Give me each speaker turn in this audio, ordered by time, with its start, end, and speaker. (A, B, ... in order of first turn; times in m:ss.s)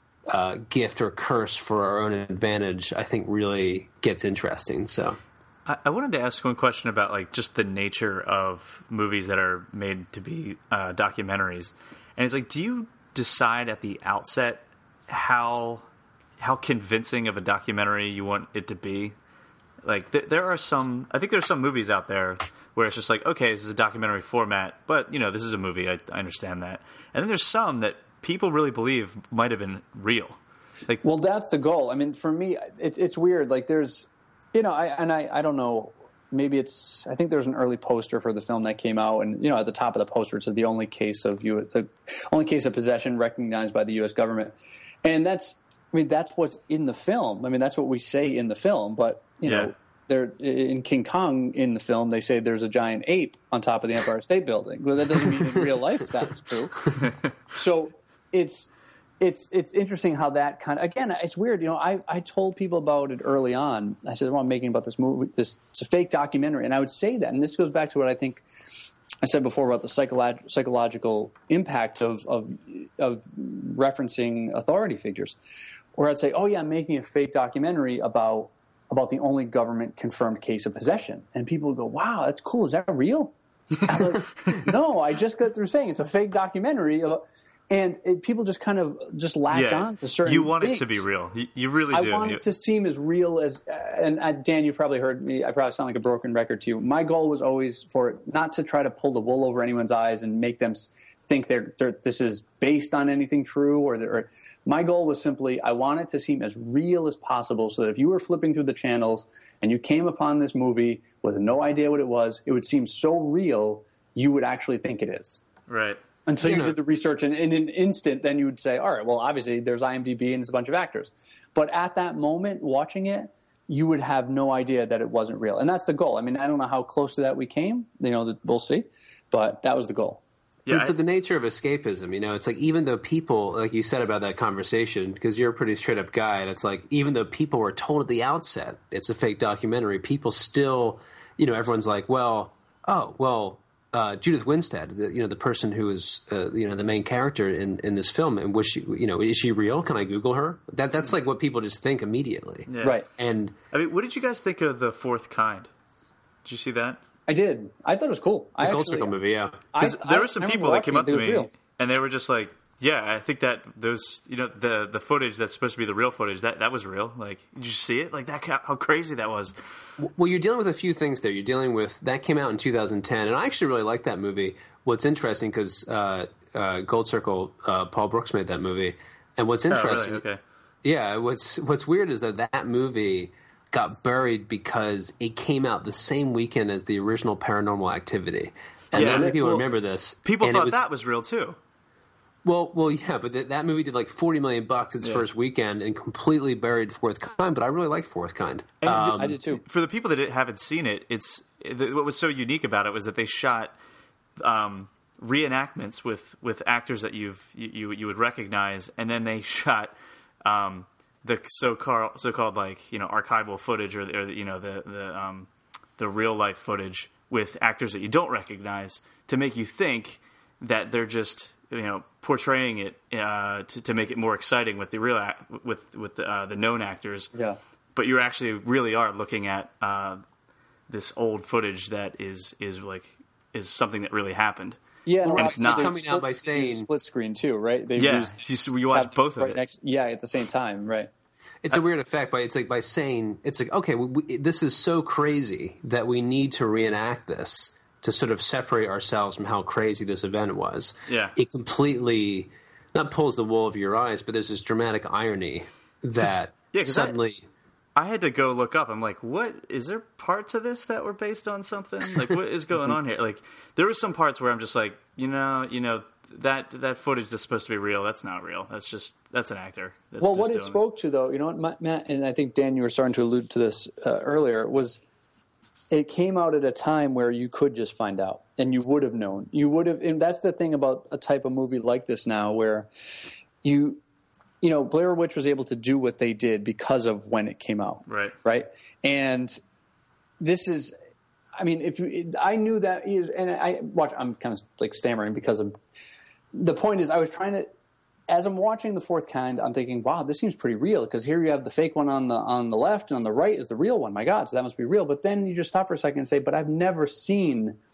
0:00.3-0:05.2 A
0:05.7-0:15.9 B
0:16.4-0:19.1 B
0:19.8-0:31.0 B
0:31.0-0:57.0 C
0:49.4-0:49.7 B
0:57.5-1:08.4 C
1:09.2-1:15.4 C
1:16.0-1:23.3 C
1:23.9-1:31.0 C
1:29.5-1:32.4 B
1:31.9-1:55.4 C
1:55.7-1:56.0 B
1:56.3-2:10.2 C
1:56.4-1:56.8 A
2:10.7-2:11.0 B
2:10.7-2:33.5 A
2:32.7-2:33.0 B
2:33.7-2:35.7 B
2:36.4-2:37.0 B
2:37.3-2:39.1 C
2:38.6-2:39.7 A
2:39.7-2:41.5 C
2:39.8-2:49.6 B
2:50.0-3:00.2 A
2:59.7-3:00.4 B
3:00.8-3:10.8 A
3:08.9-3:09.7 B
3:09.0-3:09.3 C
3:10.2-3:11.6 B
3:12.4-3:19.4 A
3:18.8-3:23.7 B
3:18.9-3:19.6 C
3:24.4-3:29.9 B
3:30.4-3:47.3 B
3:47.3-3:47.6 C
3:48.0-3:50.2 B
3:50.9-3:54.8 B
3:55.0-4:01.1 C
3:55.2-3:56.9 A
3:55.4-3:56.0 B
3:58.0-3:59.6 B
4:01.6-4:17.4 A
4:11.1-4:11.4 B
4:16.7-4:17.2 B
4:18.0-4:30.8 B
4:30.2-4:35.0 C
4:35.9-4:44.0 C
4:44.6-4:49.6 C
4:48.1-4:48.4 B
4:50.4-4:50.9 C
4:51.6-4:55.7 C
4:56.5-4:57.7 C
4:58.3-5:07.8 C